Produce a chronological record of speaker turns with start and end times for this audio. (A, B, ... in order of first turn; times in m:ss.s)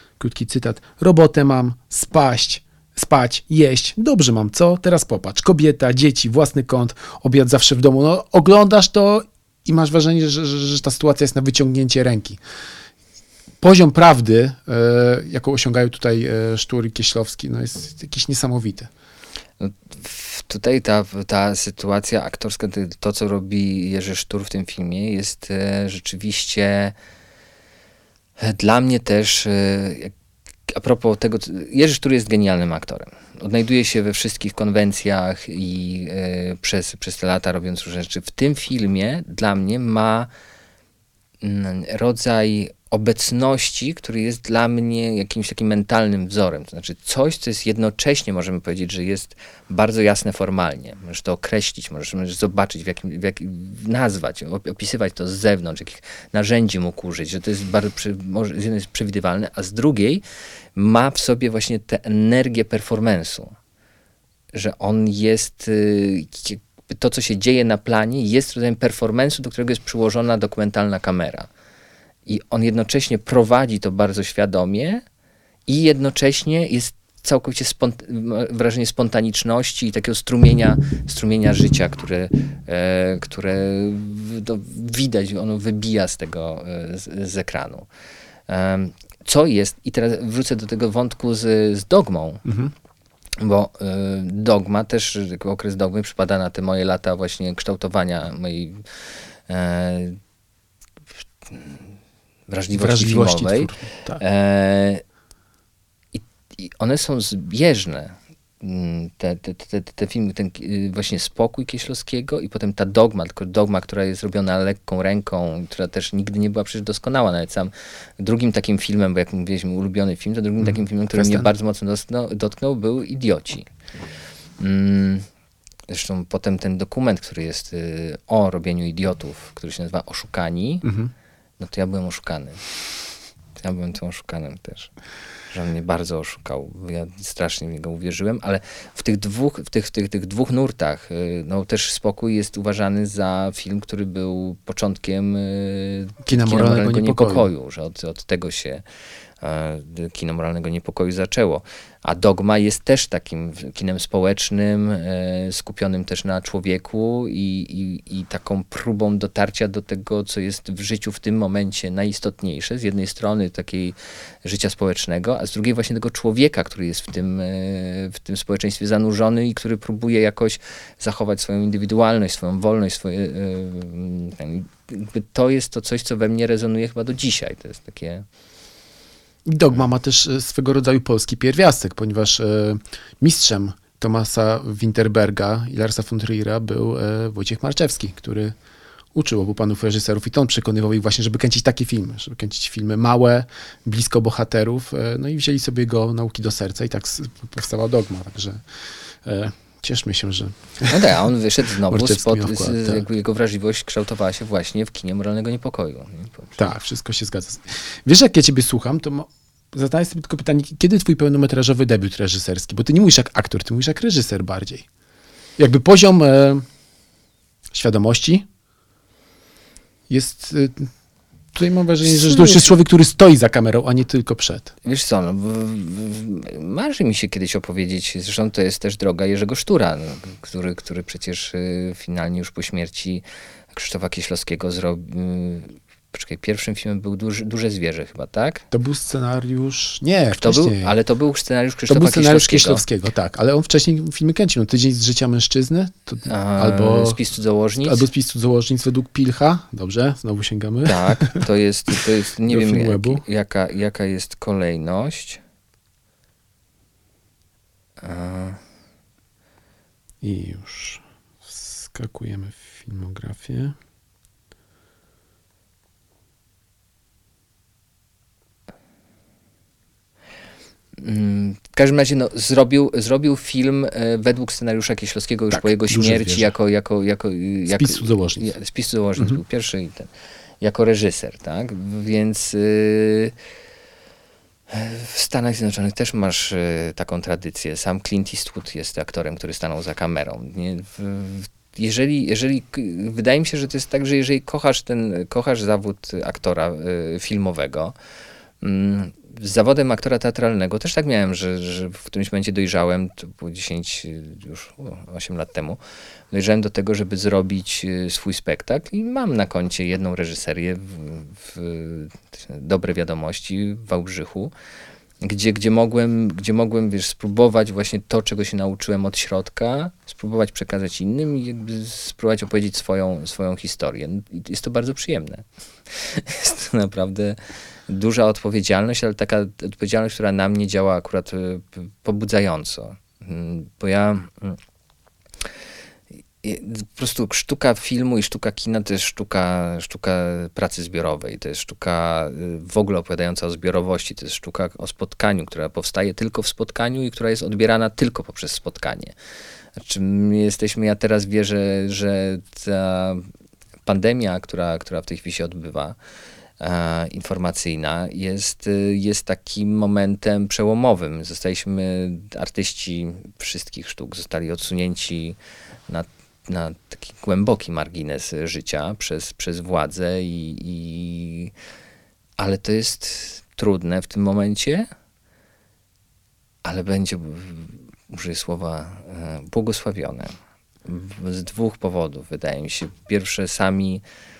0:00.2-0:12.4 A
0:13.6-0:18.9 A
0:19.6-0:26.9 B
0:28.4-0:30.1 B
0:30.7-0:40.3 B
0:41.4-1:00.2 B
1:00.8-1:03.5 B
1:04.5-1:11.5 B
1:12.2-1:15.0 B
1:15.7-1:27.9 B
1:28.5-1:32.4 B
1:32.4-1:32.7 A
1:33.4-1:38.8 B
1:39.5-1:40.2 B
1:41.5-1:41.8 B
1:42.5-1:45.0 B
1:42.7-1:44.2 A
1:46.1-2:03.7 B
2:00.6-2:01.5 A
2:04.6-2:05.2 B
2:05.9-2:10.9 B
2:10.8-2:11.1 A
2:11.6-2:12.6 B
2:13.6-2:14.9 B
2:15.5-2:28.8 B
2:26.2-2:27.5 A
2:29.4-2:58.2 B
2:59.4-3:08.5 A
3:09.1-3:18.6 A
3:19.2-3:21.0 A
3:20.9-3:26.6 B
3:21.9-3:23.0 A
3:26.6-3:34.8 A
3:35.6-3:36.6 A
3:37.7-3:38.4 A
3:40.1-3:40.9 A
3:41.5-3:44.7 A
3:42.1-3:42.7 B
3:44.8-3:58.6 B
3:58.7-4:00.9 A
4:00.3-4:02.8 B
4:01.9-4:07.2 A
4:06.2-4:08.1 B
4:07.8-4:11.4 A
4:10.8-4:15.4 B
4:12.5-4:13.2 A
4:18.0-4:18.6 B
4:20.2-4:23.8 A
4:31.0-4:40.1 B
4:35.5-4:36.5 A
4:37.7-4:38.5 A
4:40.6-4:43.3 B
4:44.7-4:57.9 B
4:58.6-5:05.8 B
5:06.3-5:14.5 B
5:15.2-5:34.6 B
5:36.4-5:49.1 B
5:49.8-5:53.2 B
5:53.8-5:56.0 B
5:56.6-6:11.5 B
6:12.4-6:14.9 B
6:16.6-6:24.0 B